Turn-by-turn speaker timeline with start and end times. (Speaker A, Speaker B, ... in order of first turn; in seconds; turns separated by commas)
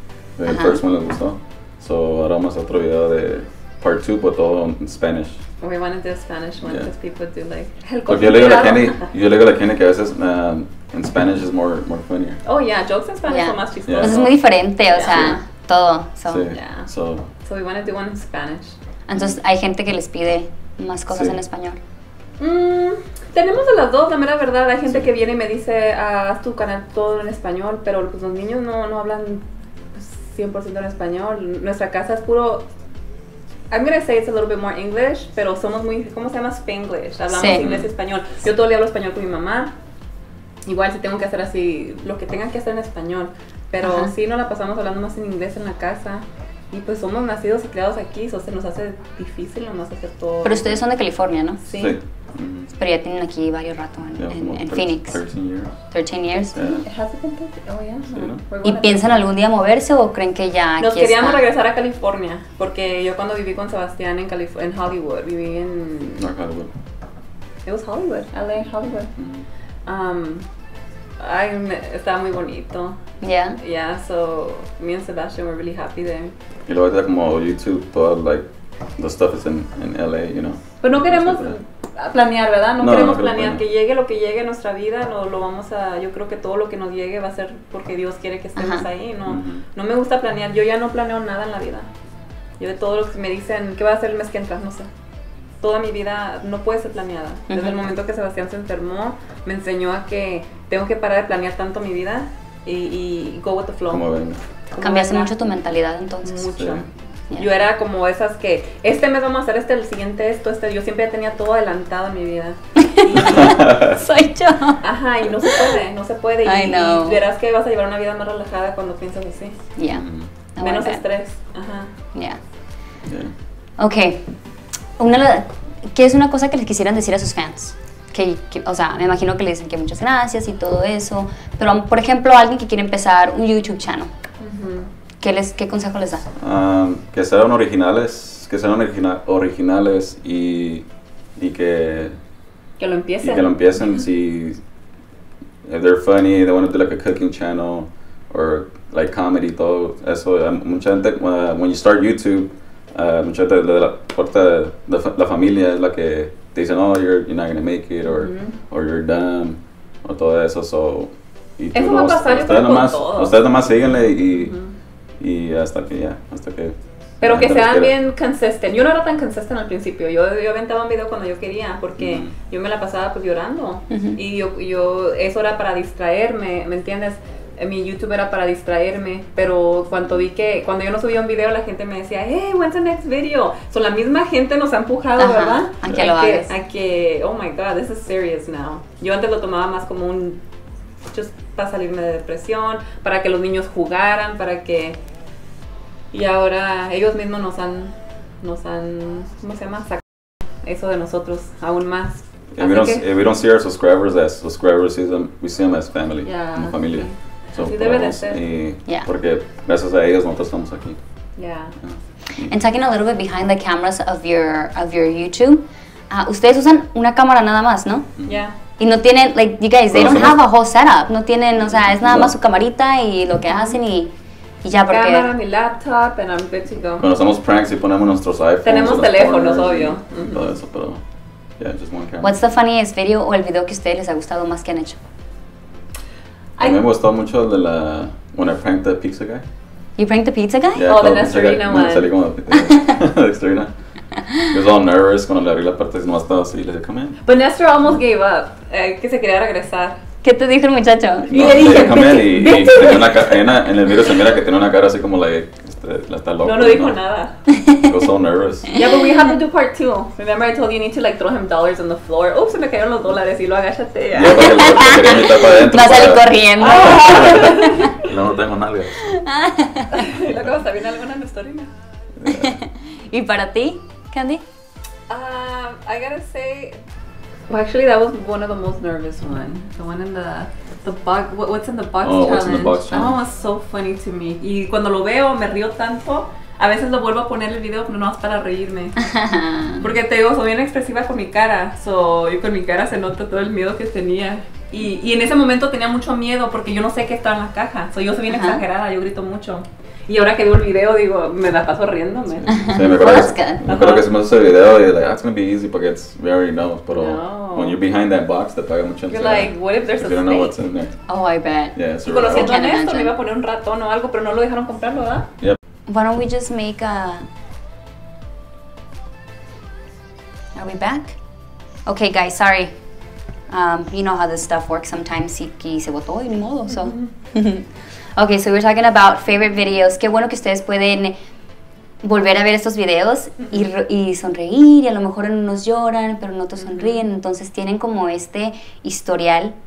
Speaker A: 0.3-5.4, Speaker B: 0.5-0.8, Speaker C: 5.6-9.1, Speaker A: 6.6-6.9, Speaker A: 8.1-12.4, Speaker C: 12.4-14.3, Speaker B: 13.2-16.5, Speaker A: 13.9-14.3, Speaker C: 14.9-15.4, Speaker A: 15.0-15.4, Speaker A: 16.3-17.3, Speaker C: 16.5-16.9, Speaker C: 17.4-18.8, Speaker B: 19.1-21.8, Speaker A: 21.1-21.4, Speaker C: 22.4-32.7, Speaker C: 33.7-39.8, Speaker B: 37.3-37.6, Speaker A: 37.5-37.9, Speaker C: 40.6-50.8, Speaker B: 43.8-44.1, Speaker B: 50.4-51.6, Speaker C: 51.6-52.0, Speaker A: 51.8-52.7, Speaker B: 52.7-55.2, Speaker A: 54.2-55.7, Speaker B: 55.9-56.5, Speaker C: 56.3-59.2, Speaker A: 56.5-56.8, Speaker A: 58.1-58.4, Speaker B: 58.6-61.4, Speaker C: 60.8-66.2, Speaker A: 66.2-66.7, Speaker C: 67.7-69.1, Speaker A: 69.2-69.5, Speaker C: 69.8-70.5, Speaker C: 71.2-73.0, Speaker B: 73.2-73.6, Speaker C: 73.6-76.3, Speaker A: 76.7-81.6, Speaker C: 80.8-91.9, Speaker A: 82.8-83.6, Speaker B: 88.5-88.9, Speaker A: 89.2-89.6, Speaker C: 92.6-94.9, Speaker C: 95.6-104.0, Speaker B: 97.5-97.8, Speaker A: 103.9-104.4, Speaker C: 104.7-105.3, Speaker B: 104.8-106.5, Speaker C: 106.2-113.7, Speaker A: 106.6-106.8, Speaker B: 112.8-114.8, Speaker A: 113.2-114.0, Speaker C: 114.8-119.6, Speaker B: 115.4-115.7, Speaker B: 116.4-117.2, Speaker B: 119.8-121.0, Speaker A: 119.9-120.3, Speaker C: 120.6-121.9, Speaker B: 122.1-122.4, Speaker A: 123.0-123.3, Speaker B: 123.8-124.3, Speaker B: 125.0-134.1, Speaker C: 134.4-134.9, Speaker B: 135.2-136.2, Speaker A: 136.3-140.8, Speaker A: 141.3-142.2, Speaker C: 142.8-143.5, Speaker A: 143.2-144.6, Speaker A: 145.6-164.5, Speaker C: 158.0-158.6, Speaker C: 161.7-163.4, Speaker C: 164.3-164.8, Speaker A: 165.2-167.9, Speaker C: 167.2-190.4, Speaker A: 172.0-172.3, Speaker B: 173.9-174.2, Speaker B: 185.2-186.5, Speaker C: 191.1-195.0, Speaker C: 196.1-200.0, Speaker C: 200.6-203.1, Speaker A: 202.5-211.0, Speaker C: 206.2-208.4, Speaker C: 211.3-211.8, Speaker A: 211.8-212.5, Speaker B: 212.3-218.2, Speaker A: 218.2-218.4, Speaker C: 218.2-218.6, Speaker B: 218.8-225.3, Speaker A: 219.9-220.4, Speaker A: 221.9-222.3, Speaker C: 224.9-227.1, Speaker A: 227.0-231.0, Speaker C: 228.6-230.4, Speaker A: 231.6-232.4, Speaker B: 232.2-235.0, Speaker A: 236.6-239.4, Speaker B: 240.0-240.9, Speaker A: 240.7-243.7, Speaker C: 240.9-242.1, Speaker B: 242.6-242.8, Speaker A: 244.3-247.2, Speaker C: 247.2-250.0, Speaker B: 250.2-253.2, Speaker A: 251.3-257.0, Speaker C: 256.4-257.4, Speaker B: 257.5-258.0, Speaker A: 257.8-258.8, Speaker B: 258.7-259.2, Speaker C: 258.7-264.9, Speaker A: 264.1-269.1, Speaker B: 264.4-267.9, Speaker C: 266.6-268.1, Speaker B: 269.0-270.1, Speaker C: 269.9-271.7, Speaker A: 272.2-272.6, Speaker B: 272.3-274.4, Speaker C: 275.1-276.8, Speaker C: 277.5-289.0, Speaker A: 282.0-283.2, Speaker B: 289.0-289.8, Speaker C: 289.8-302.5, Speaker B: 298.3-298.6, Speaker A: 302.4-311.0, Speaker B: 302.5-303.6, Speaker C: 303.6-304.0, Speaker C: 306.9-307.8, Speaker C: 309.1-310.5, Speaker B: 311.1-313.1, Speaker A: 311.7-312.6, Speaker C: 312.0-315.3, Speaker B: 315.9-317.3, Speaker B: 320.5-321.2, Speaker B: 321.9-322.8, Speaker B: 323.5-331.1, Speaker B: 332.0-339.6, Speaker C: 333.4-333.6, Speaker C: 336.6-337.0